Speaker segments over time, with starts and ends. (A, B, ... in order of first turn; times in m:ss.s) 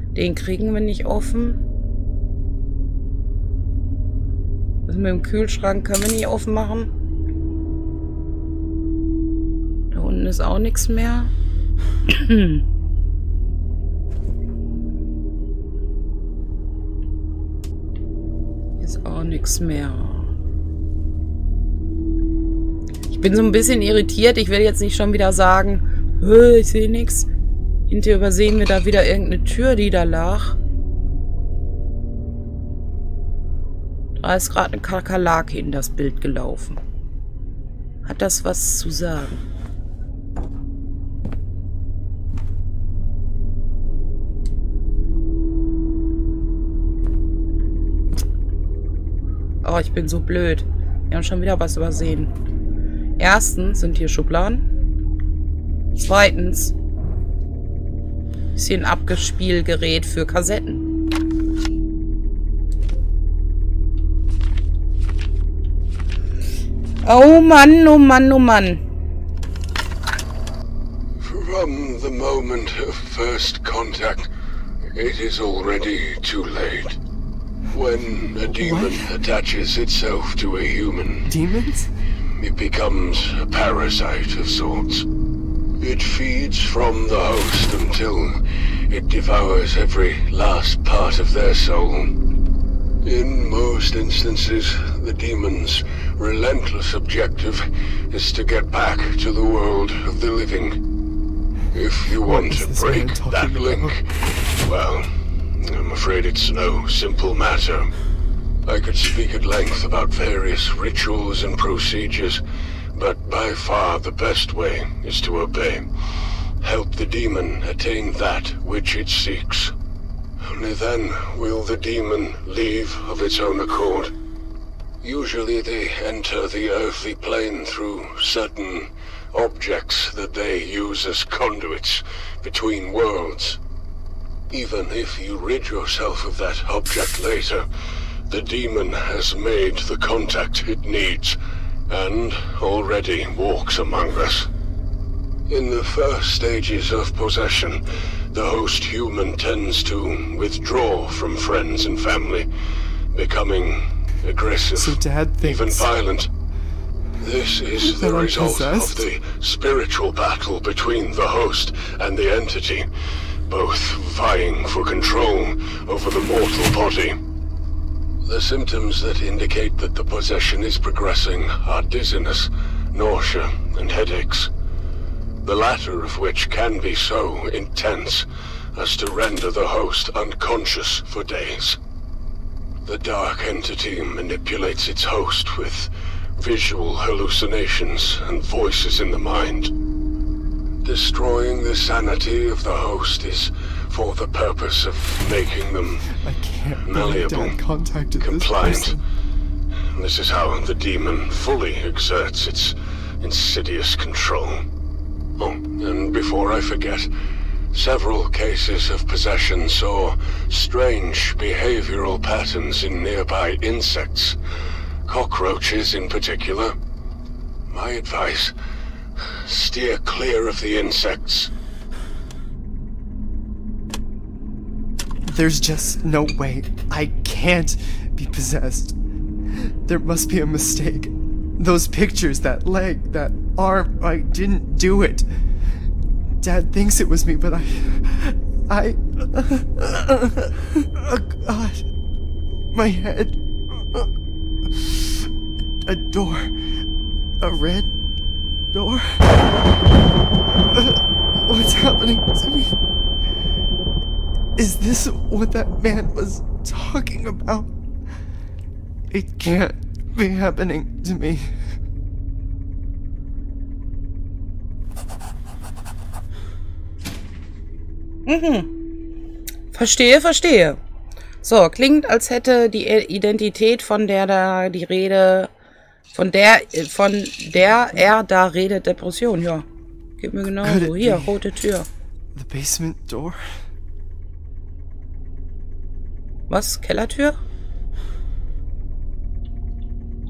0:00.1-0:01.6 A
0:04.9-0:06.9 A
0:09.9-0:11.3 A
0:12.1-0:12.6 A
0:18.8-0:20.3 A
0:23.1-0:27.3 A
0:27.9-0:30.6 A
0:34.2-0:36.8 A
0:38.0-0:39.4 A
0:49.6-0:52.3 A
0:53.2-0:54.6 A
0:55.9-0:56.7 A
0:58.5-1:00.8 A
1:07.0-1:08.8 A
1:11.2-1:14.3 B
1:14.9-1:17.0 B
1:17.7-1:21.3 B
1:18.5-1:19.1 C
1:21.2-1:21.9 C
1:22.4-1:25.0 B
1:25.8-1:28.4 B
1:28.9-1:32.1 B
1:33.0-1:40.8 B
1:41.7-1:44.0 B
1:42.2-1:43.9 C
1:44.6-1:47.9 B
1:48.6-1:52.4 B
1:52.9-1:55.8 B
1:56.6-1:59.7 B
2:00.4-2:04.1 B
2:05.0-2:13.6 B
2:14.5-2:17.6 B
2:18.3-2:21.4 B
2:21.9-2:24.5 B
2:25.5-2:27.8 B
2:28.3-2:32.4 B
2:33.1-2:36.3 B
2:34.8-2:35.9 C
2:37.2-2:42.8 B
2:37.8-2:39.0 C
2:43.5-2:47.2 B
2:48.2-2:54.5 B
2:55.4-3:01.8 B
3:02.8-3:09.7 B
3:10.8-3:16.1 B
3:16.1-3:19.0 C
3:16.9-3:17.6 B
3:18.2-3:19.0 B
3:19.9-3:24.6 B
3:25.4-3:27.1 B
3:27.7-3:34.4 B
3:35.0-3:36.7 B
3:37.7-3:38.5 B
3:39.4-3:41.5 B
3:45.2-3:49.0 C
3:49.5-3:55.2 C
3:56.4-4:01.8 C
4:02.7-4:04.1 C
4:04.6-4:05.3 C
4:05.8-4:06.5 C
4:07.4-4:07.9 C
4:08.7-4:09.3 C
4:10.7-4:12.8 C
4:14.6-4:17.7 C
4:19.1-4:21.5 C
4:28.2-4:28.7 A
4:29.7-4:30.8 A
4:31.4-4:35.5 A
4:36.1-4:39.6 A
4:40.2-4:41.9 A
4:40.6-4:41.4 C
4:42.3-4:43.4 C
4:46.5-4:47.4 A